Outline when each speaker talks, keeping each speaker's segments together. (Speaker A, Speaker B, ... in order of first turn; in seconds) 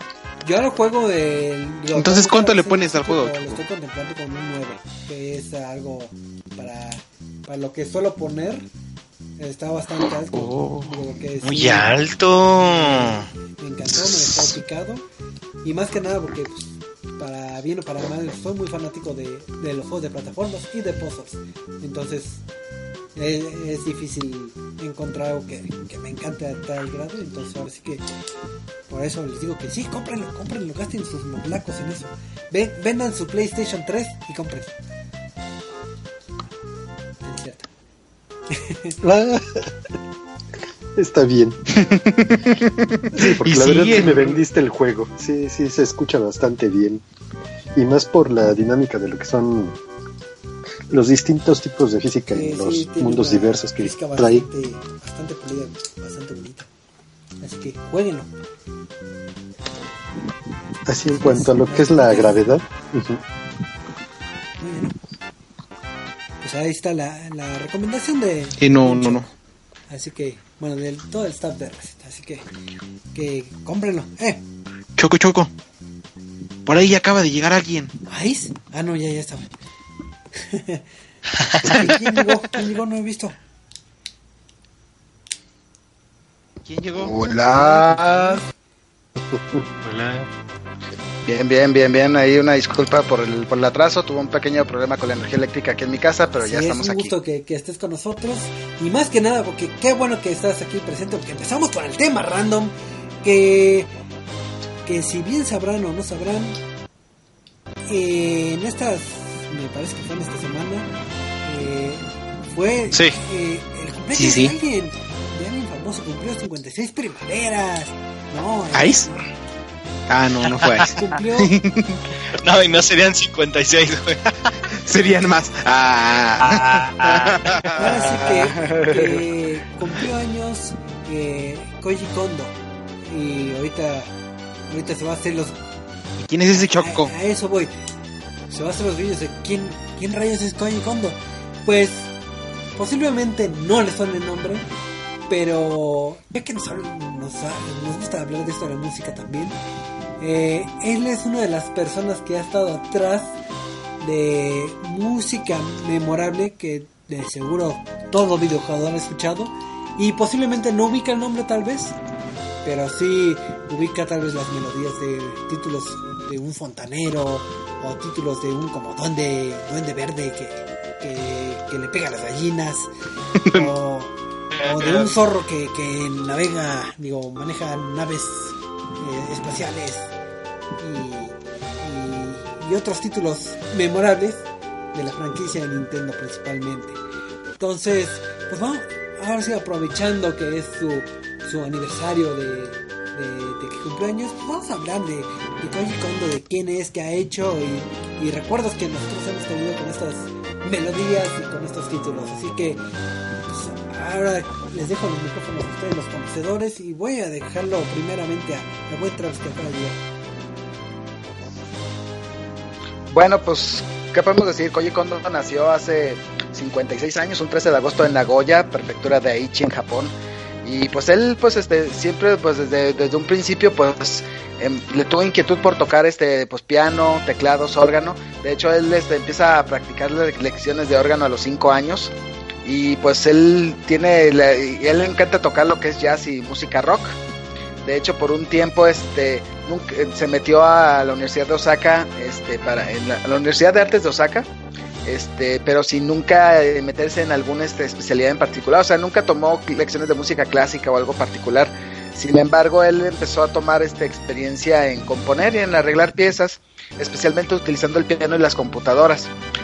Speaker A: 0.4-8.7, 9.4-11.9, 12.6-15.0, 15.6-22.4, 23.1-28.0, 28.9-34.8, 37.2-37.7, 38.5-39.0, 52.3-56.7, 57.4-58.3, 61.1-62.5, 64.6-65.0, 66.4-69.3, 69.9-72.5, 73.1-74.4, 78.1-79.5, 80.3-80.8, 81.6-83.4, 87.4-88.5, 96.4-103.9, 104.8-106.6, 107.9-110.9, 111.4-119.3, 120.9-121.5, 127.8-134.1, 134.7-135.6, 136.5-137.7, 138.5-142.1, 142.7-144.7, 145.3-149.6, 150.2-153.4, 154.0-162.0, 162.6-172.9, 173.4-180.1, 180.8-187.0, 187.6-202.8, 203.5-210.0
Speaker B: 1.9-3.6, 10.3-10.9, 41.7-44.4, 68.6-69.3, 75.0-75.5, 76.7-77.9, 86.6-87.2, 114.1-114.5, 118.7-119.1, 120.1-122.0, 124.8-128.1, 136.2-137.1, 173.4-173.7
Speaker C: 11.4-13.3, 81.4-82.0, 89.8-90.3, 112.9-113.2, 120.5-120.9, 122.3-124.5, 126.4-128.3
Speaker D: 39.0-39.6, 41.0-41.6, 43.1-47.0, 47.7-49.8, 50.9-54.5, 60.9-63.2, 89.3-89.6
Speaker E: 87.0-88.4, 91.2-97.1, 128.2-129.2, 213.1-232.1, 232.6-237.2, 237.8-244.5, 245.1-259.3